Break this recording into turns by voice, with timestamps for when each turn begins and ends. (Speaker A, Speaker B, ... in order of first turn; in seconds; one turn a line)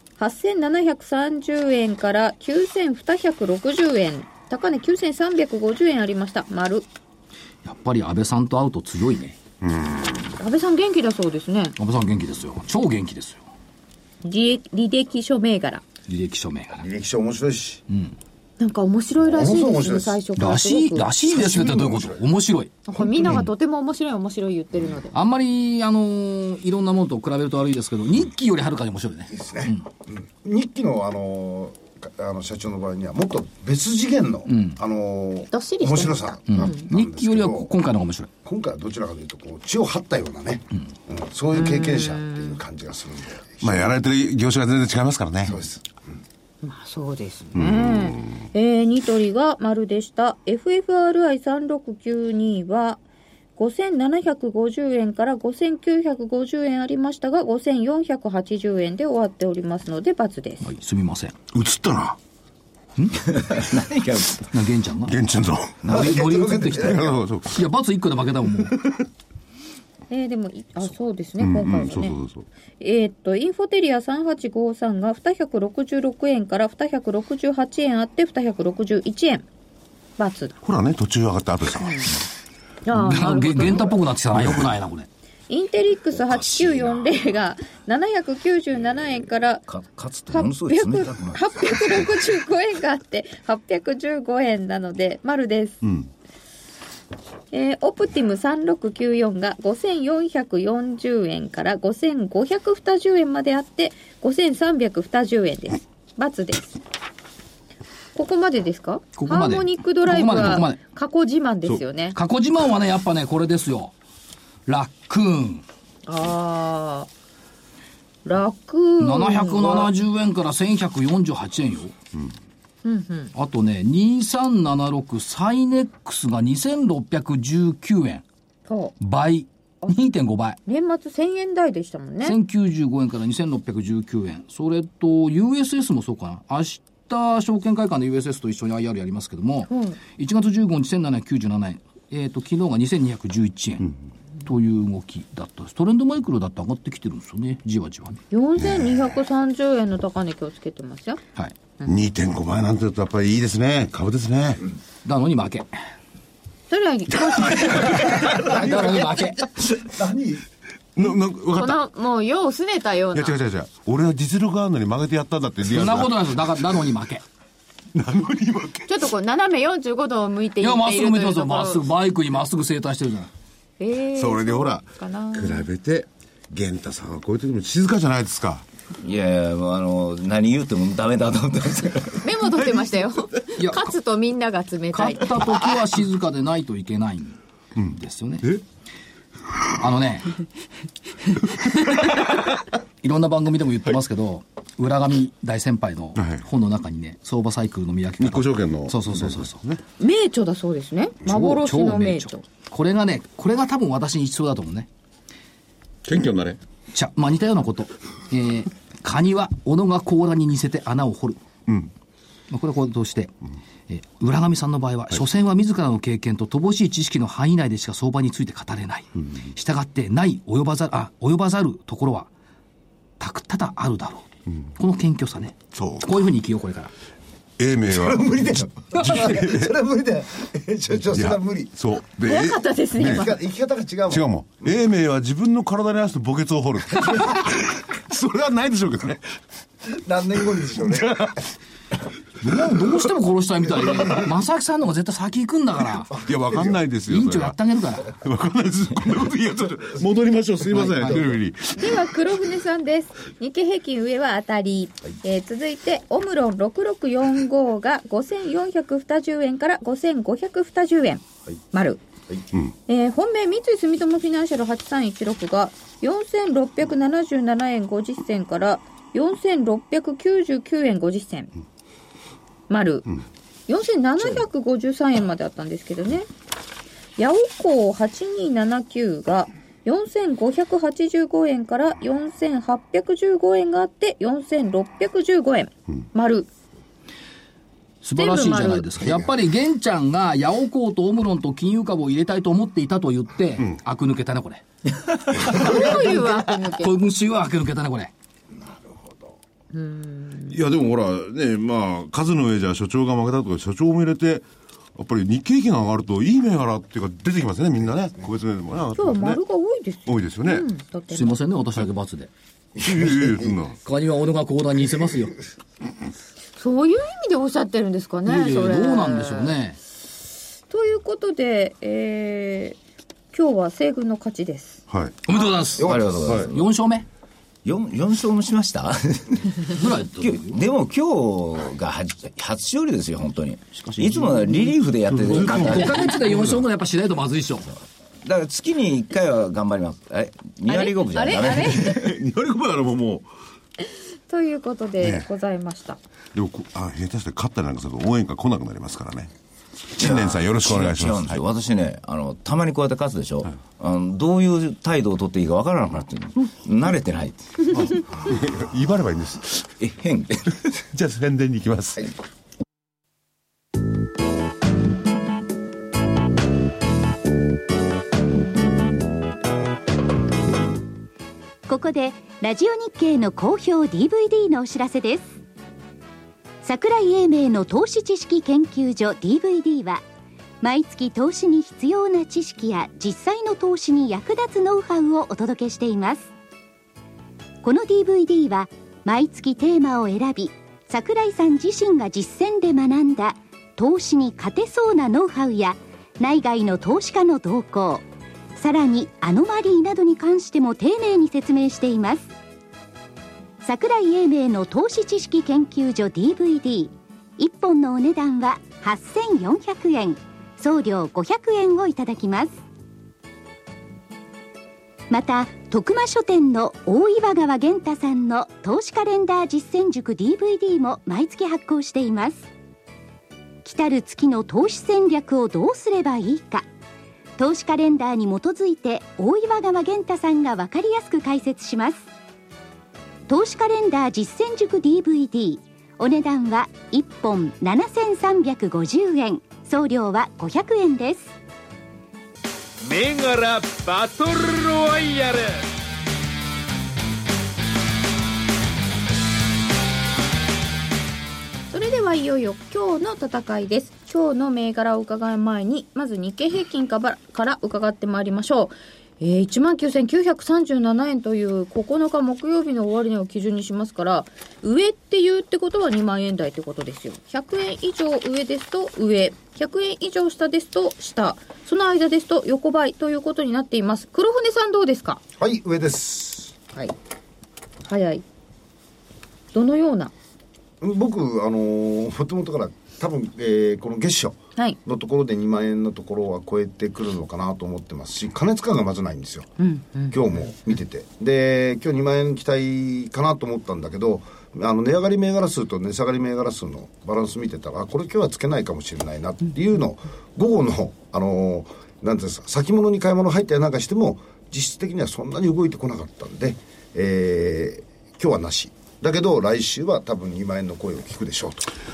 Speaker A: 0.2-6.9
Speaker B: 7.6-9.4
Speaker C: 9.6-10.1
Speaker A: 10.4-11.7
Speaker B: 11.8-13.4
Speaker A: 14.2-15.8
Speaker B: 16.1-16.8
Speaker D: 16.8-17.8
Speaker A: 18.6-21.2
Speaker D: 19.2-20.2
Speaker B: 20.4-23.4
Speaker D: 21.5-22.1
Speaker A: 22.9-25.1
Speaker B: 25.1-29.8
Speaker D: 29.3-37.7
Speaker B: 34.5-34.8
Speaker A: 35.5-36.9
Speaker B: 36.5-38.3
Speaker D: 38.4-43.9
Speaker A: 41.5-42.6
Speaker C: 43.6-45.6
Speaker D: 45.5-45.8
Speaker A: 46.6-53.0
Speaker C: 47.5-48.4
Speaker A: 53.6-60.6
Speaker B: 60.6-61.3
Speaker C: 61.5-62.2
Speaker B: 63.0-63.3
Speaker E: 63.3-64.5
Speaker B: 64.5-65.2
Speaker C: 65.1-65.8
Speaker B: 65.8-68.8
Speaker D: 65.8-67.2
Speaker C: 66.8-67.6
Speaker A: 70.1-72.2
Speaker C: 71.4-72.5
Speaker A: 72.8-79.4
Speaker A: 80.2-80.6
Speaker C: 80.6-82.1
Speaker A: 81.8-82.1
Speaker A: 82.8-84.1
Speaker B: 82.9-85.1
Speaker A: 85.5-89.6
Speaker E: 86.3-87.2
Speaker E: 89.7-92.1
Speaker A: 90.3-95.9
Speaker A: 97.5-106.8
Speaker A: 108.1-112.2
Speaker B: 109.1-110.8
Speaker B: 112.1-113.9
Speaker B: 114.7-115.6
Speaker A: 116.0-117.1
Speaker A: 118.2-119.9
Speaker B: 119.0-121.9
Speaker A: 122.8-123.3
Speaker B: 123.3-128.2
Speaker A: 128.7-128.9
Speaker B: 129.0-130.6
Speaker A: 130.7-132.4
Speaker B: 132.2-143.9
Speaker A: 139.7-140.0
Speaker B: 144.4-148.2
Speaker A: 148.3-151.2
Speaker C: 151.8-154.6
Speaker B: 155.0-155.7
Speaker A: 156.7-158.3
Speaker B: 157.9-159.5
Speaker D: 158.4-159.2
Speaker D: 159.7-160.4
Speaker C: 160.9-161.8
Speaker A: 161.0-163.4
Speaker C: 163.1-166.2
Speaker B: 165.7-167.2
Speaker C: 167.9-169.0
Speaker A: 168.9-171.9
Speaker B: 170.6-173.3
Speaker A: 173.8-175.7
Speaker C: 174.1-178.6
Speaker E: 179.0-182.3
Speaker A: 182.2-185.7
Speaker B: 183.6-183.9
Speaker B: 184.9-187.4
Speaker C: 187.8-188.6
Speaker B: 187.9-188.5
Speaker B: 189.8-190.4
Speaker B: 193.0-199.6
Speaker C: 196.2-196.4
Speaker C: 198.2-199.8
Speaker A: 200.0-202.4
Speaker B: 201.2-204.9
Speaker C: 206.0-206.6
Speaker B: 206.9-211.4
Speaker B: 212.5-213.3
Speaker B: 213.9-222.3
Speaker B: 223.2-226.9
Speaker C: 225.7-226.1
Speaker C: 227.6-228.2
Speaker D: 227.9-231.7
Speaker C: 229.0-229.7
Speaker C: 231.1-233.3
Speaker A: 232.2-233.4
Speaker D: 233.0-234.3
Speaker C: 234.1-239.2
Speaker D: 239.9-241.3
Speaker C: 240.9-241.4
Speaker B: 242.4-246.1
Speaker C: 246.2-247.6
Speaker D: 246.3-246.8
Speaker B: 247.1-248.1
Speaker C: 248.1-252.0
Speaker B: 250.7-251.3
Speaker A: 251.7-262.0
Speaker A: 262.9-271.5
Speaker A: 272.7-276.3
Speaker A: 277.2-286.5
Speaker B: 288.0-294.6
Speaker A: 288.1-289.0
Speaker B: 295.3-298.1
Speaker A: 295.4-296.9
Speaker D: 298.6-299.3
Speaker A: 299.7-300.6
Speaker C: 300.5-309.4
Speaker A: 308.9-311.4
Speaker C: 310.0-310.7
Speaker B: 311.1-312.3
Speaker D: 312.8-313.5
Speaker C: 312.8-313.7
Speaker B: 313.8-315.4
Speaker A: 316.6-319.6
Speaker B: 318.2-319.8
Speaker A: 320.7-322.8
Speaker A: 323.3-324.8
Speaker C: 324.9-325.2
Speaker B: 325.2-327.1
Speaker E: 325.8-326.6
Speaker E: 327.6-336.1
Speaker B: 329.7-330.6
Speaker C: 335.2-336.6
Speaker B: 335.2-337.7
Speaker E: 338.2-342.1
Speaker A: 340.7-342.0
Speaker C: 341.8-343.3
Speaker A: 344.3-346.0
Speaker C: 345.0-345.3
Speaker C: 346.3-349.3
Speaker C: 350.0-351.4
Speaker E: 350.0-357.6
Speaker C: 357.7-359.7
Speaker E: 359.8-360.6
Speaker C: 360.9-362.1
Speaker F: 371.7-375.4
Speaker F: 376.6-380.0
Speaker F: 380.6-386.3
Speaker F: 387.6-398.0
Speaker F: 398.6-402.3
Speaker F: 403.6-412.6
Speaker F: 415.1-422.5
Speaker F: 423.6-426.6
Speaker F: 427.4-432.0
Speaker F: 433.3-441.3
Speaker G: 442.8-445.7
Speaker A: 451.7-475.2
Speaker D: 475.4-476.5
Speaker A: 477.9-478.2
Speaker A: 479.5-480.1
Speaker D: 480.8-489.5
Speaker A: 489.6-490.1
Speaker D: 490.1-511.7